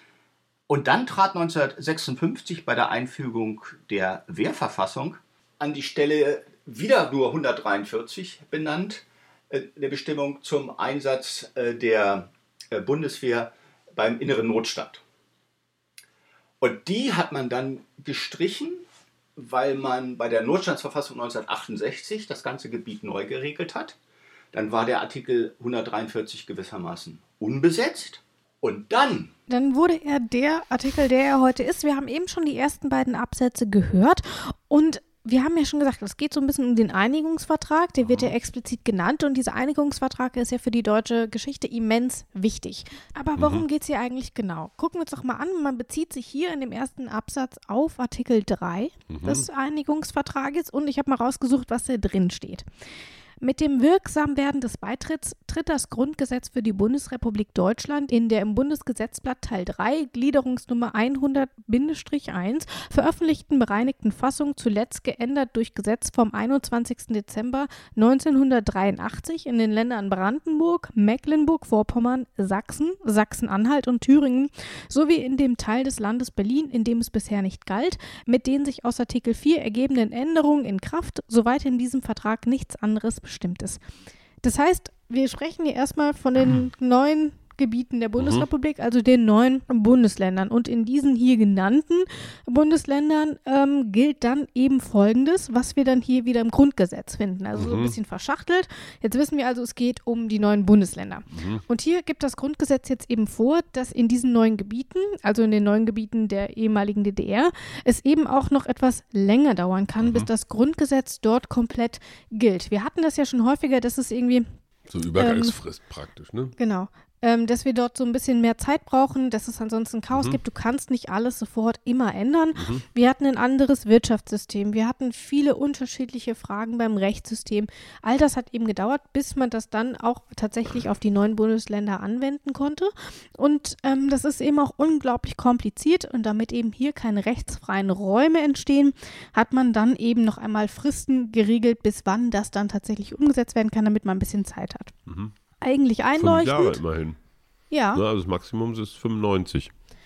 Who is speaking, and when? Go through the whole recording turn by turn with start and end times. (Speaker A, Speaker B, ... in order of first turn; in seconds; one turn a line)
Speaker A: 0.7-15.0
Speaker A: 16.6-18.8
Speaker A: 19.4-24.0
Speaker A: 24.5-29.3
Speaker B: 29.5-52.7
Speaker C: 38.0-38.3
Speaker C: 43.4-43.6
Speaker C: 49.1-49.5
Speaker B: 53.4-83.8
Speaker B: 84.4-114.5
Speaker C: 88.2-88.5
Speaker C: 97.6-98.0
Speaker C: 101.3-101.6
Speaker C: 110.0-110.3
Speaker C: 114.9-116.5
Speaker B: 115.2-115.5
Speaker B: 116.6-144.9
Speaker C: 120.1-120.4
Speaker C: 122.5-122.8
Speaker C: 145.1-145.3
Speaker B: 145.6-146.8
Speaker C: 146.2-147.2
Speaker B: 147.7-148.0
Speaker C: 147.9-149.7